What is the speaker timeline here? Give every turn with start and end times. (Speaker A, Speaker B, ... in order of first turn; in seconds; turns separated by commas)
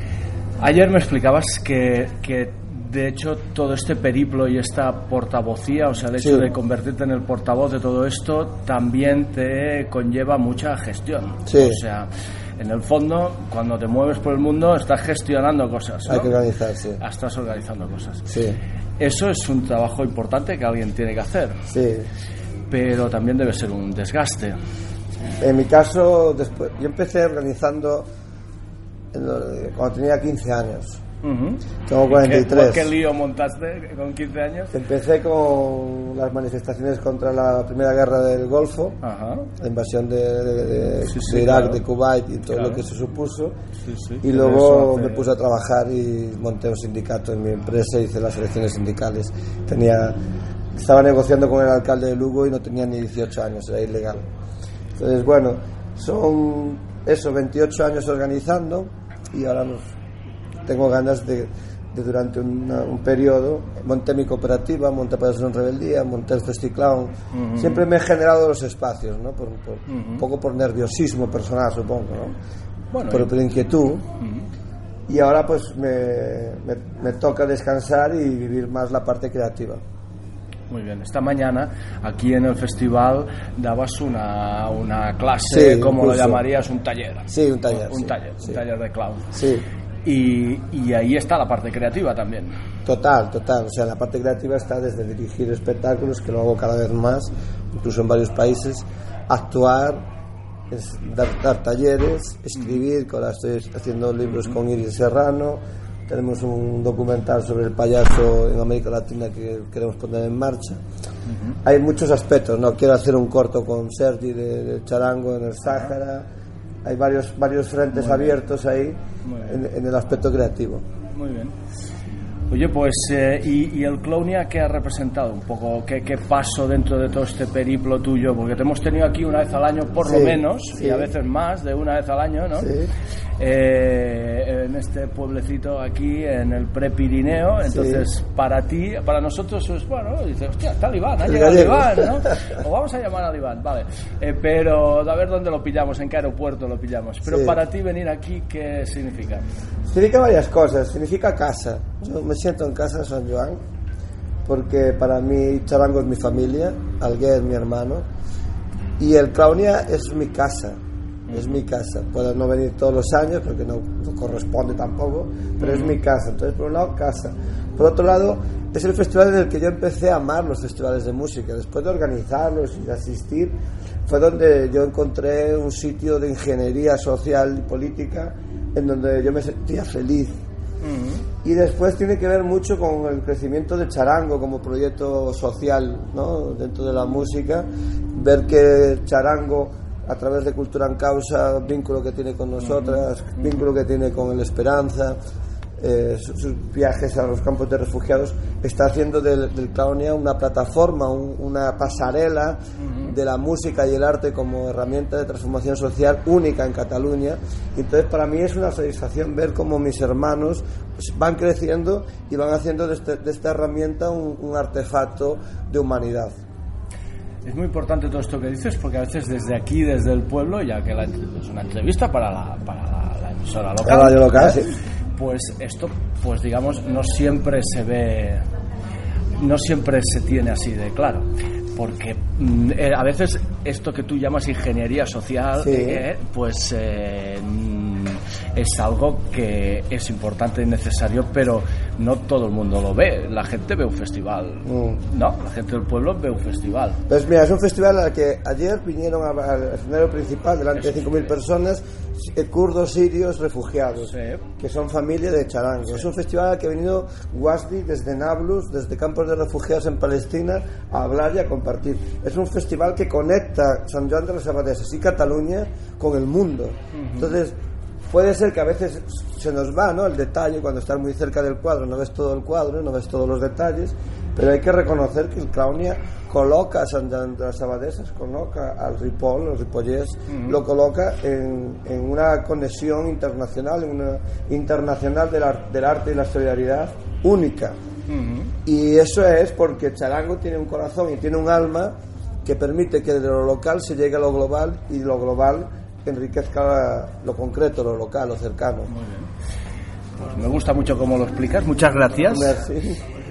Speaker A: 0.6-16.4, Speaker B: 6.2-6.5, Speaker B: 11.5-11.8, Speaker B: 16.1-17.0, Speaker A: 17.0-18.3, Speaker B: 18.3-18.6, Speaker A: 19.0-21.6, Speaker B: 21.7-22.1, Speaker A: 22.7-24.6, Speaker B: 25.4-28.1, Speaker B: 29.1-31.0, Speaker A: 31.2-34.8, Speaker B: 31.9-32.9, Speaker B: 34.7-39.0, Speaker A: 39.0-39.5, Speaker B: 39.6-43.5, Speaker A: 41.0-41.8, Speaker A: 42.5-42.8, Speaker A: 43.9-45.3, Speaker B: 44.2-50.2, Speaker B: 50.8-54.2, Speaker B: 55.0-59.9, Speaker B: 60.7-72.3, Speaker A: 67.3-67.8, Speaker A: 69.9-70.2, Speaker A: 72.9-73.3, Speaker B: 73.1-74.0, Speaker A: 74.2-74.5, Speaker B: 75.1-79.8, Speaker A: 80.7-89.3, Speaker B: 85.5-86.4, Speaker B: 87.3-88.6, Speaker B: 89.3-89.7, Speaker A: 90.0-92.5, Speaker B: 92.8-100.0, Speaker B: 100.7-110.8, Speaker A: 104.3-104.5, Speaker A: 111.3-111.6, Speaker B: 111.7-116.2, Speaker B: 116.8-120.8, Speaker A: 117.9-118.4, Speaker A: 119.2-119.6, Speaker A: 121.1-121.5, Speaker A: 122.5-132.7, Speaker B: 130.1-131.1, Speaker B: 132.6-132.9, Speaker A: 133.4-149.4, Speaker B: 137.7-138.1, Speaker B: 141.2-142.1, Speaker B: 147.3-147.6, Speaker B: 149.9-153.6, Speaker B: 154.5-158.1, Speaker B: 159.0-160.8, Speaker A: 161.3-161.6, Speaker B: 161.3-173.5, Speaker A: 165.6-166.0, Speaker B: 174.1-180.4, Speaker A: 180.8-181.2, Speaker B: 181.4-195.2, Speaker A: 192.6-193.0, Speaker B: 195.8-216.3, Speaker A: 202.8-203.2, Speaker A: 217.4-224.6, Speaker B: 223.8-224.7, Speaker A: 225.2-228.4, Speaker A: 229.4-247.0, Speaker B: 235.6-236.1, Speaker B: 244.7-245.0, Speaker B: 247.1-267.6, Speaker A: 250.8-251.1, Speaker A: 254.0-254.4, Speaker A: 266.9-267.3, Speaker B: 268.1-287.8, Speaker A: 280.3-280.6, Speaker A: 288.1-288.5, Speaker B: 288.7-291.9, Speaker B: 292.4-298.9, Speaker A: 298.9-299.3, Speaker A: 300.2-302.6, Speaker B: 302.3-303.0